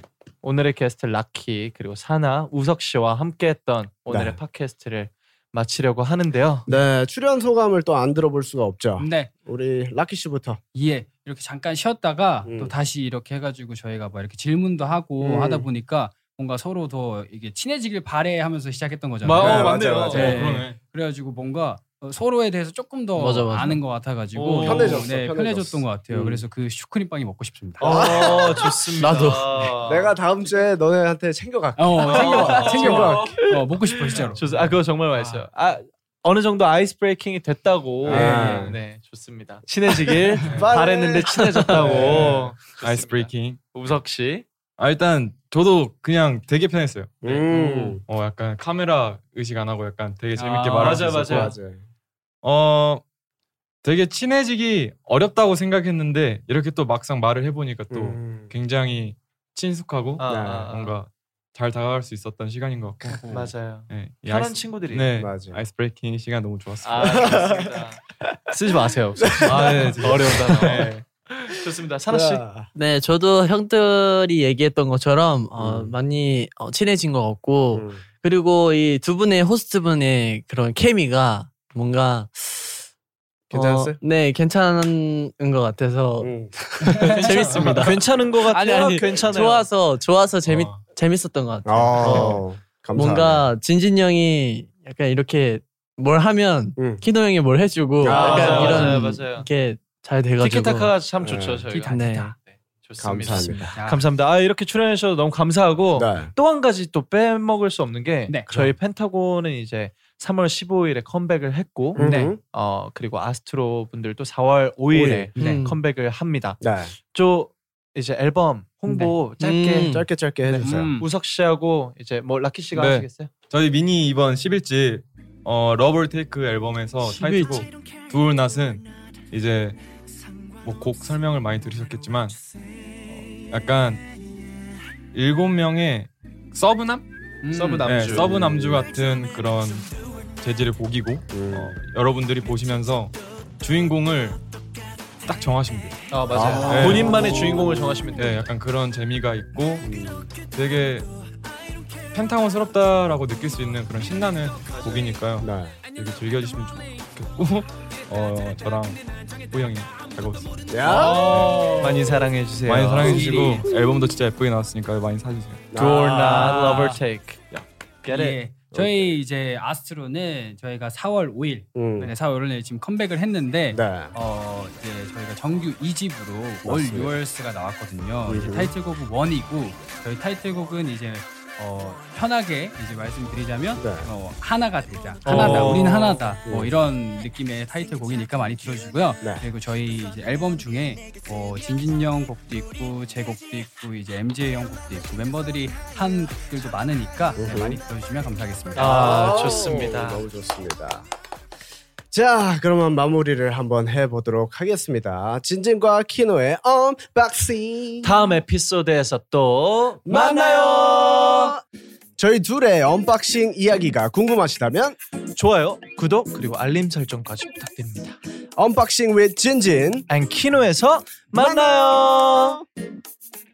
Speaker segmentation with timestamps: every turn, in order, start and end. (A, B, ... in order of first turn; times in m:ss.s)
0:00.4-0:06.7 A
0:04.1-0:04.4 B
0:06.6-0:10.6 B
0:09.0-0:09.3 C
0:10.7-0:28.0 C
0:12.4-0:12.7 B
0:15.2-0:15.7 B
0:19.2-0:20.4 A
0:19.3-0:20.8 D
0:19.3-0:20.4 B
0:23.2-0:23.8 E
0:24.3-0:25.1 A
0:24.6-0:26.4 B
0:27.8-0:28.9 B
0:27.8-0:30.1 A
0:29.0-0:29.7 E
0:29.8-0:33.4 B
0:31.8-0:34.4 C
0:32.0-0:44.4 A
0:38.0-0:38.8 B
0:38.1-0:38.7 C
0:40.4-0:40.8 D
0:40.5-0:42.4 B
0:41.9-0:43.6 D
0:44.8-0:51.5 D
0:47.2-0:48.0 B
0:50.4-0:51.5 C
0:50.8-0:51.6 A
0:51.2-0:51.8 B
0:52.4-0:53.0 D
0:53.8-1:03.3 D
0:57.9-0:58.5 B
1:00.2-1:01.0 A
1:00.3-1:00.7 B
1:03.3-1:05.1 A
1:03.9-1:07.4 D
1:05.2-1:05.6 B
1:06.8-1:12.4 A
1:07.0-1:07.7 B
1:09.2-1:10.5 B
1:09.4-1:11.0 D
1:12.1-1:12.7 B
1:12.7-1:22.8 E
1:15.6-1:15.9 B
1:17.7-1:18.0 B
1:23.5-1:24.0 B
1:23.5-1:32.4 E
1:26.2-1:26.5 B
1:26.9-1:27.5 C
1:27.2-1:27.9 D
1:27.6-1:29.7 A
1:30.4-1:30.8 D
1:31.6-1:33.5 B
1:32.0-1:32.3 A
1:32.9-1:40.9 E
1:36.8-1:37.0 B
1:38.0-1:39.0 B
1:38.0-1:39.5 A
1:38.5-1:38.9 C
1:40.4-2:00.0 A
1:41.2-1:41.6 B
1:41.7-1:42.3 C
1:41.9-1:42.3 E
1:43.0-1:43.8 B
1:43.6-1:44.0 C
1:45.9-1:46.3 B
1:48.5-1:48.7 B
1:51.9-1:52.4 B
1:52.0-1:52.3 C
1:54.9-1:55.3 B
1:55.4-1:55.8 E
1:55.4-1:55.6 C
1:56.6-1:56.9 B
1:58.9-1:59.1 C
1:59.4-2:00.1 E
1:59.9-2:00.9 B
2:00.5-2:01.1 C
2:01.0-2:03.3 A
2:02.7-2:09.8 D
2:07.2-2:07.6 C
2:10.6-2:12.4 D
2:13.5-2:14.0 D
2:15.1-2:17.0 D
2:17.4-2:18.2 C
2:17.5-2:18.4 A
2:17.8-2:24.4 D
2:18.2-2:18.8 B
2:21.3-2:21.8 B
2:25.2-2:27.2 D
2:26.1-2:28.5 A
2:26.3-2:28.0 B
2:28.2-2:29.9 D
2:29.8-2:30.3 B
2:30.4-2:31.1 D
2:32.1-2:41.8 D
2:35.4-2:35.8 B
2:40.7-2:41.5 B
2:40.8-2:42.2 C
2:41.8-2:43.6 A
2:42.6-2:45.7 D
2:43.0-2:43.6 C
2:45.7-2:46.4 B
2:45.7-2:47.5 A
2:46.1-2:47.0 C
2:48.0-2:48.4 A
2:48.0-3:19.5 C
2:48.7-2:49.2 B
2:51.7-2:52.1 B
2:53.7-2:54.1 B
2:56.6-2:57.2 B
2:58.3-2:58.7 B
3:03.8-3:04.1 B
3:05.2-3:06.4 A
3:05.3-3:05.8 B
3:06.4-3:06.8 B
3:17.4-3:17.8 B
3:18.7-3:20.3 A
3:18.8-3:21.1 B
3:22.1-3:28.2 B
3:28.0-3:31.6 A
3:30.0-3:31.6 B
3:32.2-3:35.0 B
3:35.4-3:38.2 A
3:38.6-3:40.1 B
3:40.1-3:42.6 A
3:41.3-3:42.6 B